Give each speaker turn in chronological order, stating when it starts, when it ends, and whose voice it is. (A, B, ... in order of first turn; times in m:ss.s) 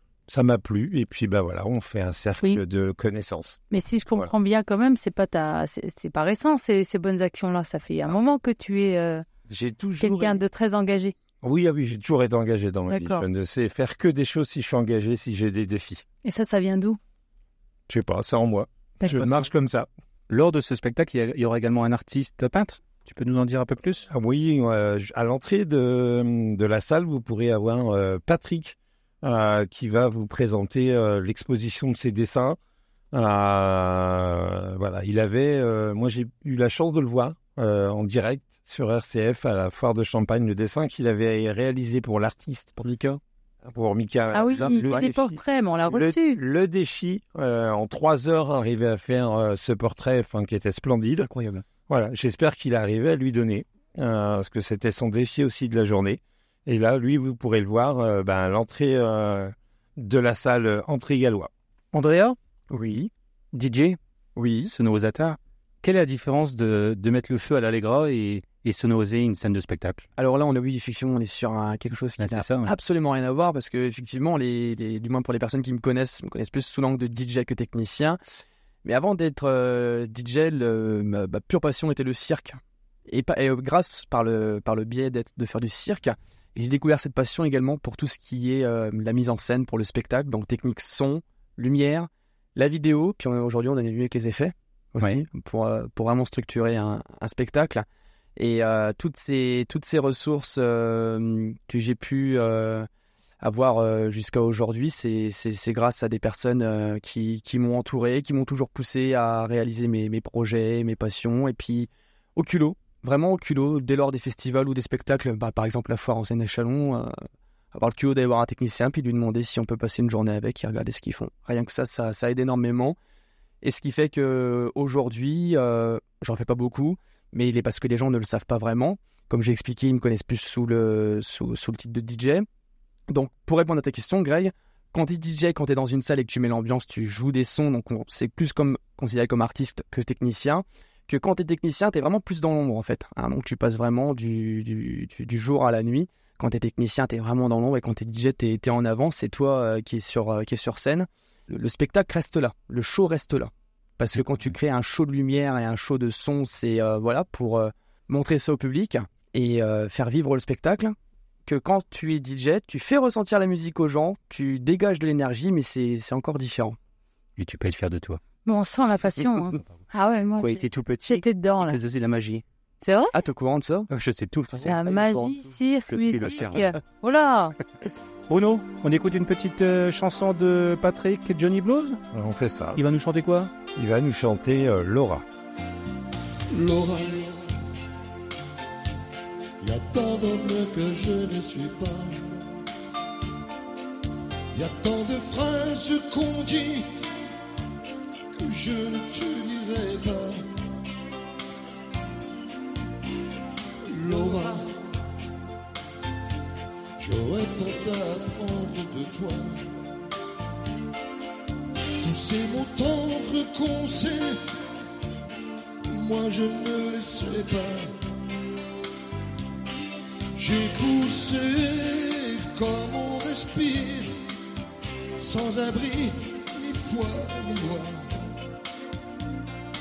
0:00.3-0:03.6 A
0:03.7-0:09.2 B
0:09.5-0:10.4 A
0:10.0-0:11.2 B
0:11.4-0:16.0 A
0:12.9-0:13.2 B
0:16.2-0:17.0 B
0:17.9-0:19.9 A
0:19.0-0:19.4 B
0:20.3-0:24.1 C
0:24.1-0:32.6 A
0:33.1-0:42.8 A
0:42.8-0:43.2 D
0:43.7-0:51.3 A
0:44.3-0:46.4 B
0:44.4-0:45.1 D
0:51.2-0:51.6 D
0:51.9-1:01.5 A
1:01.9-1:02.4 C
1:02.7-1:03.1 D
1:03.5-1:04.0 C
1:04.4-1:04.7 D
1:04.6-1:10.0 C
1:10.2-1:37.8 D
1:12.2-1:12.7 C
1:38.4-1:42.9 D
1:43.4-1:57.2 D
1:57.7-2:03.0 D
2:03.6-2:12.5 D
2:13.1-2:46.8 D
2:47.4-2:48.2 C
2:48.4-2:51.8 B
2:50.4-2:52.4 C
2:52.8-2:53.2 B
2:53.1-2:53.9 D
2:53.9-2:56.8 C
2:54.6-2:57.6 B
2:58.3-3:02.0 C
3:02.1-3:02.8 A
3:02.8-3:03.5 C
3:03.7-3:05.2 A
3:06.5-3:07.6 E
3:09.6-3:12.4 E
3:14.5-3:17.1 E
3:18.3-3:20.5 E
3:23.8-3:24.8 E
3:27.0-3:29.7 E
3:32.0-3:34.5 E
3:35.9-3:37.9 E
3:40.4-3:44.2 E
3:45.2-3:48.1 E